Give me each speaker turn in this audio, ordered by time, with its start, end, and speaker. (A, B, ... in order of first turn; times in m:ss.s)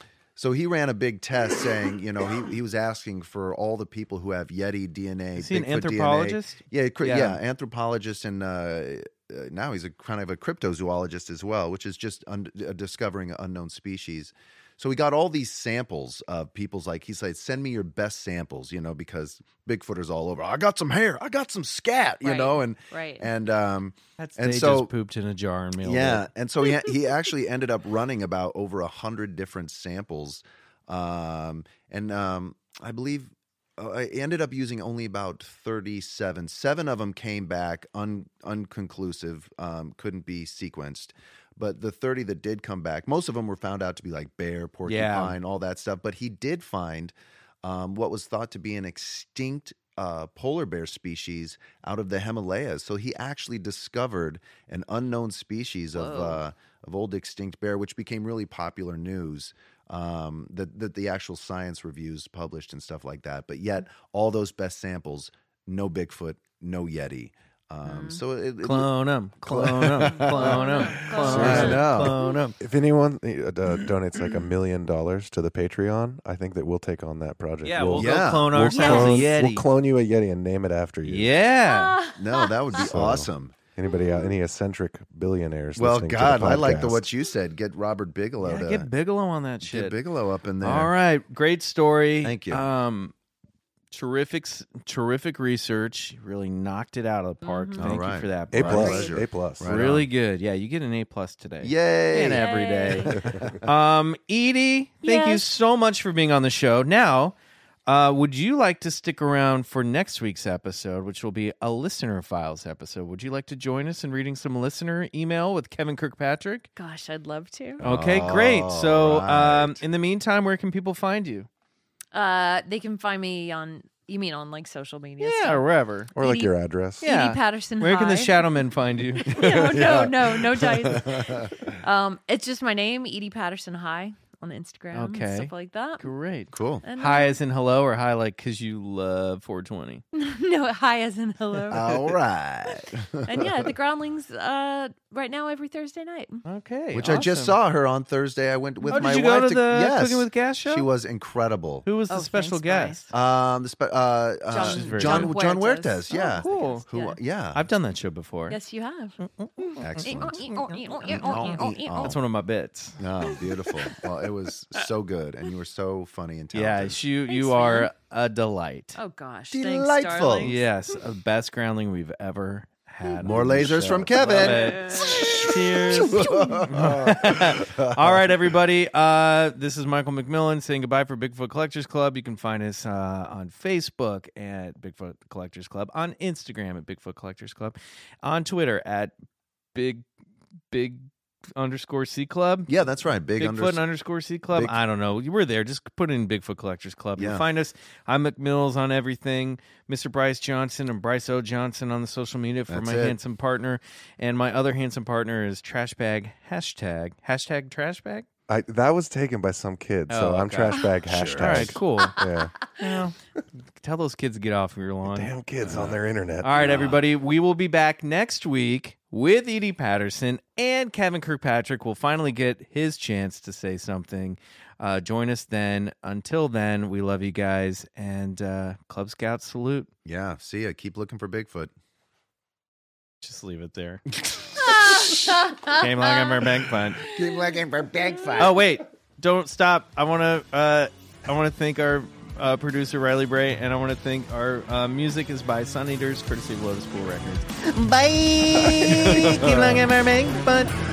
0:00.4-0:24.9 A
0:05.4-0:07.4 B
0:22.2-0:23.3 C
0:24.2-0:26.3 B
0:25.8-1:08.9 A
0:44.8-0:45.3 B
0:55.9-0:56.4 C
1:07.8-1:08.2 C
1:08.6-1:12.6 B
1:09.4-1:12.1 A
1:10.1-1:11.9 C
1:11.3-1:21.3 D
1:17.6-1:19.6 B
1:17.9-1:18.6 A
1:18.7-1:19.1 C
1:21.0-1:22.0 B
1:21.6-1:22.9 C
1:22.1-1:23.6 A
1:22.9-1:27.0 D
1:23.9-1:24.3 C
1:25.7-1:28.9 A
1:28.4-1:30.0 B
1:29.6-1:30.9 A
1:30.6-1:33.1 B
1:32.2-1:32.6 A
1:33.9-1:39.1 B
1:37.4-1:37.9 C
1:37.8-1:40.0 A
1:38.5-1:39.7 D
1:38.7-1:39.1 C
1:39.6-1:47.3 B
1:41.6-1:43.6 A
1:42.3-1:43.1 C
1:45.0-1:45.4 C
1:47.8-1:56.7 B
1:56.8-1:57.8 C
1:57.8-1:59.8 A
1:57.8-2:01.5 B
2:02.1-2:05.6 C
2:05.2-2:06.1 B
2:06.2-2:07.0 D
2:06.2-2:08.6 C
2:07.0-2:10.0 B
2:09.2-2:16.0 C
2:09.4-2:10.1 A
2:10.6-2:11.7 A
2:14.9-2:20.0 B
2:16.5-2:16.8 A
2:16.8-2:17.4 C
2:20.1-2:21.9 C
2:21.6-2:22.1 B
2:21.7-2:23.7 A
2:22.7-2:26.4 C
2:26.4-2:27.6 B
2:26.9-2:31.8 A
2:28.9-2:30.9 B
2:31.8-2:33.1 B
2:32.1-2:33.0 C
2:33.1-2:37.7 A
2:34.5-2:37.2 C
2:34.5-2:35.3 B
2:36.4-2:36.8 B
2:37.5-2:38.6 B
2:38.5-2:39.2 C
2:39.2-2:43.0 B
2:39.8-2:42.2 A
2:40.0-2:42.2 C
2:43.0-2:47.0 A
2:46.5-2:49.0 B
2:47.3-2:47.9 C
2:48.9-2:50.6 C
2:49.5-2:50.5 A
2:50.4-3:09.1 B
2:53.2-2:58.3 A
2:54.3-2:55.5 C
3:09.7-3:10.0 B
3:10.7-3:12.7 B
3:12.7-3:13.8 A
3:13.4-3:28.3 B
3:14.5-3:14.8 A
3:17.2-3:17.4 A
3:22.7-3:23.2 A
3:28.5-3:32.5 D
3:30.1-3:33.2 B
3:31.1-3:31.7 A
3:33.8-3:49.9 B
3:35.1-3:37.0 D
3:50.0-3:51.7 A
3:53.2-3:54.0 B
3:54.2-3:55.1 A
3:54.6-3:56.4 C
3:55.0-3:57.1 B
3:57.1-3:58.7 A
3:58.4-4:10.8 B
4:08.5-4:09.8 A